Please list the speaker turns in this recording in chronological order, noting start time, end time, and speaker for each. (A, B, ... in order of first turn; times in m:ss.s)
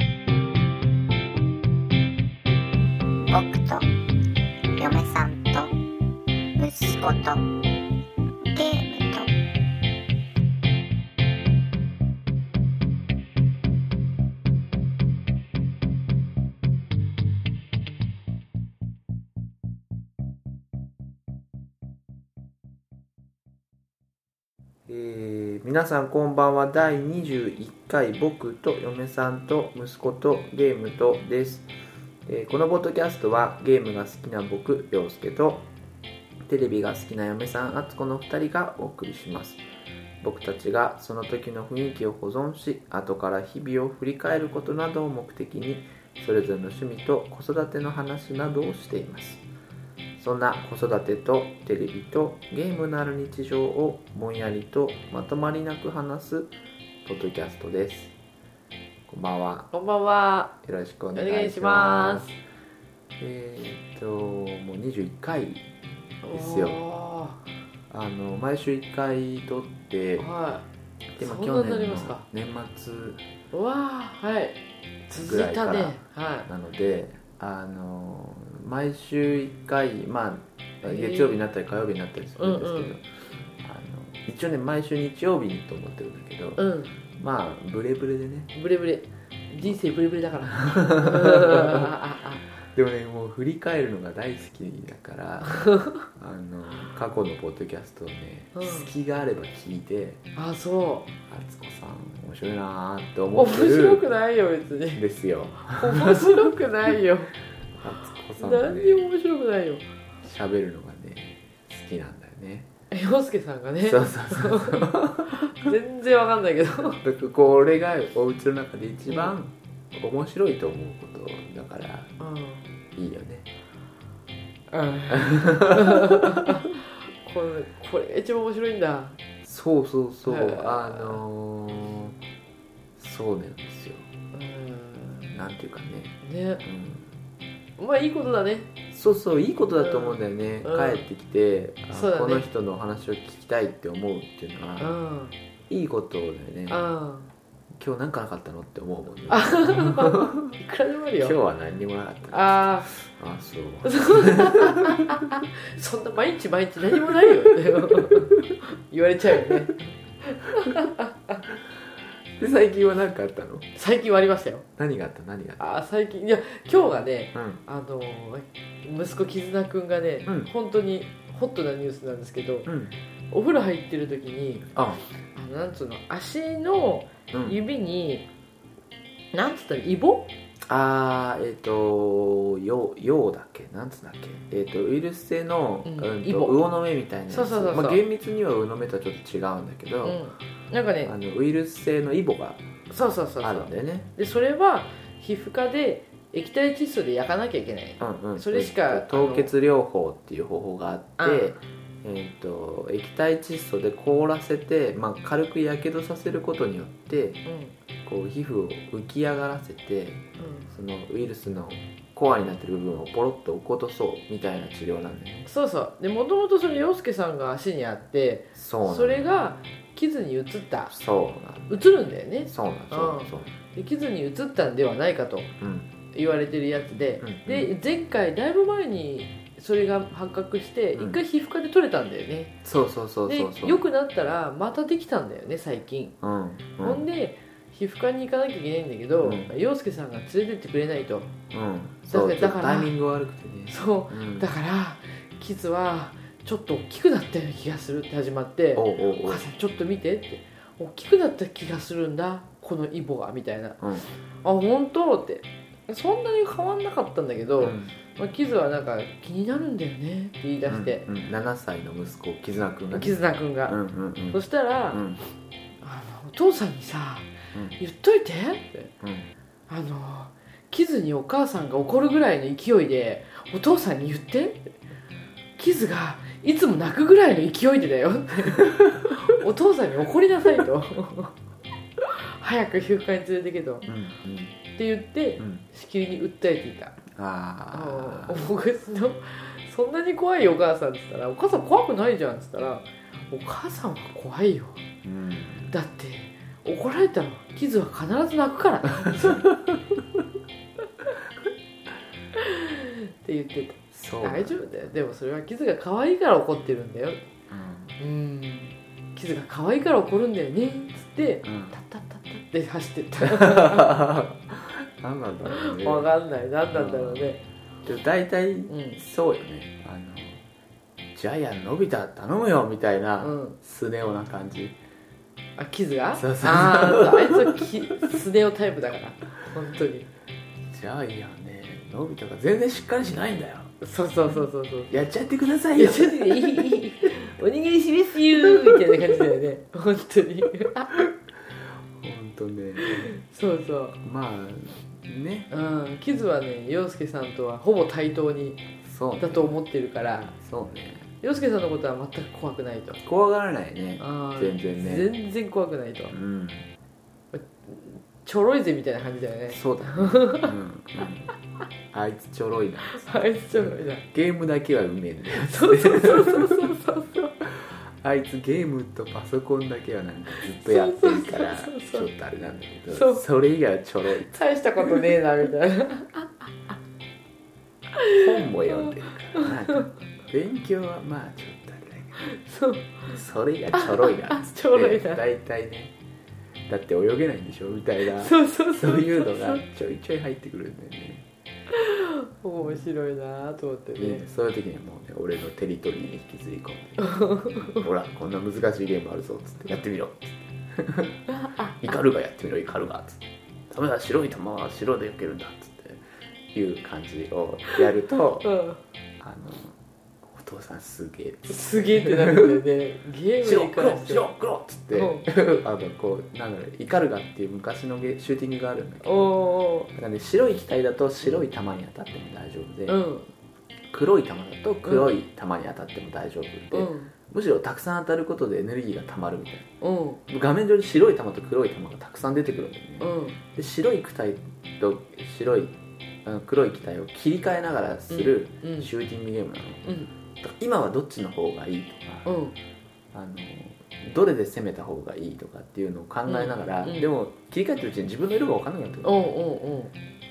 0:03.3-0:03.8 A
0:04.8-0:05.7 A
0:06.6-0:07.5 A
0:08.5-0:09.3 A
0:24.9-0:31.7 B
0:32.3-0:35.7 B
0:36.4-0:39.6 B
0:40.2-0:49.4 B
0:50.2-0:56.5 B
0:57.0-0:58.1 B
0:59.1-0:59.7 B
0:59.7-1:00.6 C
1:00.6-1:02.3 B
1:01.1-1:02.3 C
1:03.2-1:05.7 B
1:06.2-1:07.4 C
1:06.3-1:06.8 B
1:07.9-1:10.3 B
1:10.2-1:10.6 C
1:11.2-1:13.2 B
1:11.2-1:12.2 C
1:13.5-1:16.5 C
1:15.2-1:23.0 B
1:20.8-1:21.4 C
1:22.4-1:23.0 C
1:23.6-1:26.6 B
1:26.6-1:26.9 C
1:27.2-1:28.5 B
1:28.5-1:32.4 C
1:30.5-1:32.0 B
1:32.6-1:40.2 B
1:35.5-1:36.0 C
1:38.5-1:38.9 C
1:40.3-1:41.1 C
1:41.3-1:44.0 B
1:43.3-1:45.0 C
1:45.0-1:46.5 B
1:45.6-1:47.3 C
1:47.8-1:49.1 B
1:48.4-1:49.8 C
1:50.2-1:52.7 B
1:52.9-1:57.0 C
1:53.8-1:55.7 B
1:57.0-2:02.1 B
1:59.1-1:59.3 C
2:02.2-2:02.7 C
2:02.9-2:03.5 B
2:04.7-2:09.2 C
2:05.1-2:06.6 B
2:09.4-2:12.2 B
2:10.2-2:11.2 C
2:13.0-2:14.1 B
2:14.3-2:15.3 C
2:15.3-2:17.1 B
2:16.2-2:16.6 C
2:17.8-2:18.7 C
2:18.9-2:24.9 B
2:19.8-2:21.1 C
2:21.9-2:22.5 C
2:24.8-2:25.3 C
2:25.7-2:26.8 B
2:26.7-2:27.3 C
2:27.8-2:30.5 B
2:29.3-2:31.4 C
2:31.2-2:35.2 B
2:32.3-2:32.9 C
2:33.8-2:41.4 C
2:36.9-2:38.2 B
2:42.4-2:43.7 B
2:43.8-2:44.6 C
2:44.8-2:45.6 B
2:45.6-2:52.7 C
2:47.3-2:47.6 B
2:50.2-2:50.5 B
2:52.6-2:52.9 B
2:53.3-2:54.7 C
2:54.7-2:55.0 B
2:55.3-2:58.3 C
2:57.3-2:57.6 B
2:59.3-3:00.3 C
3:00.7-3:10.2 B
3:05.8-3:06.6 C
3:07.3-3:08.0 C
3:10.0-3:11.1 C
3:11.0-3:12.6 B
3:12.9-3:19.5 C
3:13.4-3:14.1 B
3:18.0-3:27.4 B
3:21.2-3:21.6 C
3:27.4-3:27.7 C
3:28.0-3:35.5 B
3:30.4-3:30.7 C
3:35.4-3:40.9 C
3:38.6-3:39.4 B
3:40.9-3:41.8 B
3:41.7-3:45.5 C
3:42.5-3:43.5 B
3:45.6-3:45.9 B
3:46.1-3:52.6 C
3:47.2-3:47.7 B
3:52.6-3:53.8 B
3:53.3-3:56.2 C
3:56.2-3:57.0 B
3:56.8-4:01.3 C
3:59.2-3:59.5 B
4:01.5-4:04.5 B
4:02.1-4:02.9 C
4:03.7-4:13.8 C
4:08.8-4:09.4 B
4:13.8-4:14.1 B
4:14.4-4:21.0 C
4:17.6-4:17.9 B
4:20.7-4:25.2 B
4:22.9-4:23.8 C
4:24.3-4:25.0 C
4:25.8-4:28.9 C
4:29.0-4:29.3 B
4:29.7-4:34.7 C
4:35.6-4:41.4 C
4:38.6-4:39.2 B
4:42.0-4:43.9 C
4:43.8-4:44.5 B
4:44.7-4:47.0 C
4:45.4-4:45.6 B
4:47.1-4:48.4 B
4:47.7-4:54.8 C
4:55.0-4:55.7 B
4:55.7-4:59.5 C
4:59.0-4:59.8 B
5:02.4-5:07.2 C
5:03.9-5:04.7 B
5:07.5-5:07.9 B
5:08.0-5:14.0 C
5:11.4-5:11.7 B
5:13.2-5:16.1 B
5:15.4-5:17.4 C
5:16.7-5:17.3 B
5:17.8-5:20.4 B
5:18.7-5:19.0 C
5:21.1-5:24.7 B
5:23.2-5:23.6 C
5:25.6-5:30.1 C
5:26.1-5:27.7 B
5:30.7-5:33.7 B
5:33.8-5:34.9 C
5:34.3-5:36.8 B
5:35.8-5:41.0 C
5:38.3-5:39.2 B
5:42.0-5:43.2 B
5:42.8-5:44.0 C
5:44.0-5:45.5 B
5:45.5-5:48.6 C
5:48.8-5:49.5 B
5:49.2-5:50.3 C
5:50.3-5:51.1 B
5:51.2-5:53.0 C
5:53.0-5:55.1 B
5:54.0-5:56.2 C
5:56.1-5:56.6 B
5:57.3-6:00.5 C
5:59.5-6:01.3 B
6:01.9-6:06.8 B
6:02.9-6:04.0 C
6:05.4-6:07.3 C
6:07.4-6:15.1 B
6:10.4-6:12.1 C
6:12.9-6:13.2 C
6:14.3-6:16.5 C
6:17.9-6:19.9 C
6:18.1-6:22.2 B
6:22.2-6:23.1 C
6:23.1-6:25.9 B
6:23.7-6:25.2 C
6:26.7-6:31.2 B
6:28.1-6:29.6 C
6:31.7-6:34.2 C
6:34.0-6:41.2 B
6:37.0-6:37.8 C
6:41.3-6:41.9 C
6:41.8-6:48.5 B
6:48.4-6:48.8 C
6:49.2-6:52.6 B
6:51.5-6:54.2 C
6:53.4-6:59.3 B
6:54.9-6:55.3 C
6:59.0-6:59.9 C
6:59.9-7:03.0 B
7:02.9-7:03.3 C
7:03.9-7:09.7 B
7:04.8-7:05.1 C
7:06.7-7:07.1 C
7:09.8-7:10.2 C
7:10.3-7:19.8 B
7:13.0-7:13.4 C
7:18.1-7:18.9 C
7:19.8-7:20.1 C
7:20.4-7:22.3 B
7:22.2-7:22.5 C
7:23.1-7:29.2 B
7:26.3-7:27.1 C
7:29.0-7:29.9 C